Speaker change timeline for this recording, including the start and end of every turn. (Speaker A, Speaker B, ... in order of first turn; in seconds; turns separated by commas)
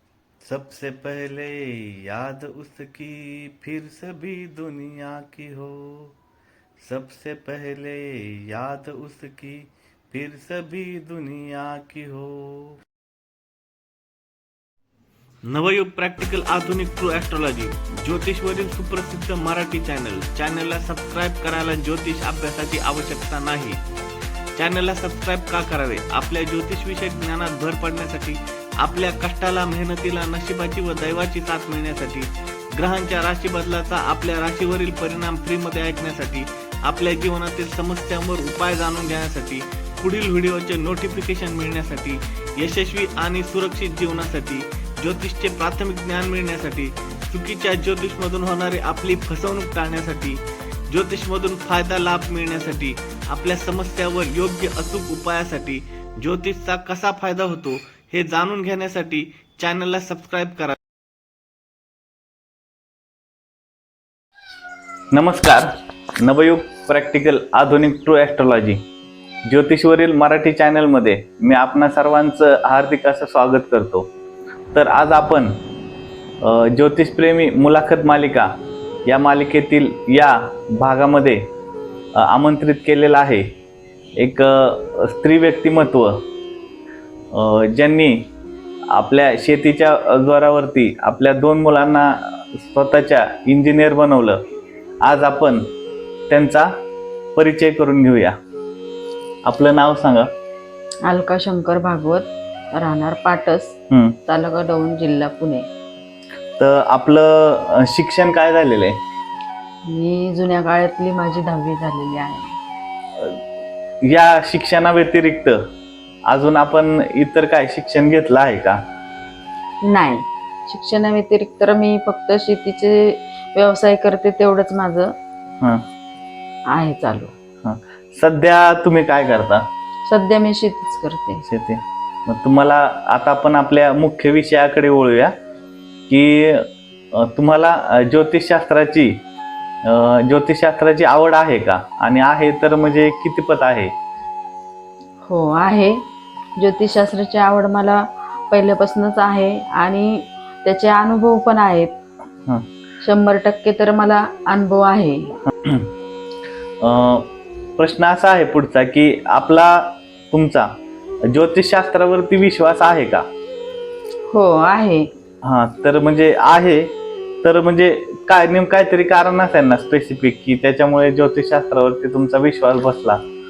Speaker A: 0.4-6.1, Speaker A: 6.8-12.8, Speaker A: 15.5-23.8, Speaker A: 24.6-60.8, Speaker A: 65.1-68.8, Speaker A: 69.5-74.1, Speaker A: 74.7-75.5, Speaker A: 76.4-78.5, Speaker A: 79.1-81.5, Speaker A: 82.2-83.5, Speaker A: 84.2-86.3, Speaker A: 87.3-88.3, Speaker A: 88.9-94.4, Speaker A: 95.0-95.7, Speaker A: 96.3-96.7, Speaker A: 97.3-98.4, Speaker A: 99.5-100.3, Speaker B: 101.1-105.7, Speaker A: 103.9-104.2, Speaker A: 106.6-109.0, Speaker B: 109.9-112.6, Speaker A: 114.0-115.6, Speaker A: 116.3-118.8, Speaker B: 119.8-125.1, Speaker B: 126.7-127.3, Speaker A: 127.6-129.7, Speaker B: 130.1-131.4, Speaker A: 131.4-135.3, Speaker A: 136.1-139.2, Speaker A: 139.9-143.9, Speaker B: 145.3-146.0, Speaker B: 146.6-151.9, Speaker B: 153.0-155.3, Speaker A: 156.8-160.7, Speaker A: 161.3-163.2, Speaker B: 164.3-165.1, Speaker A: 165.4-173.2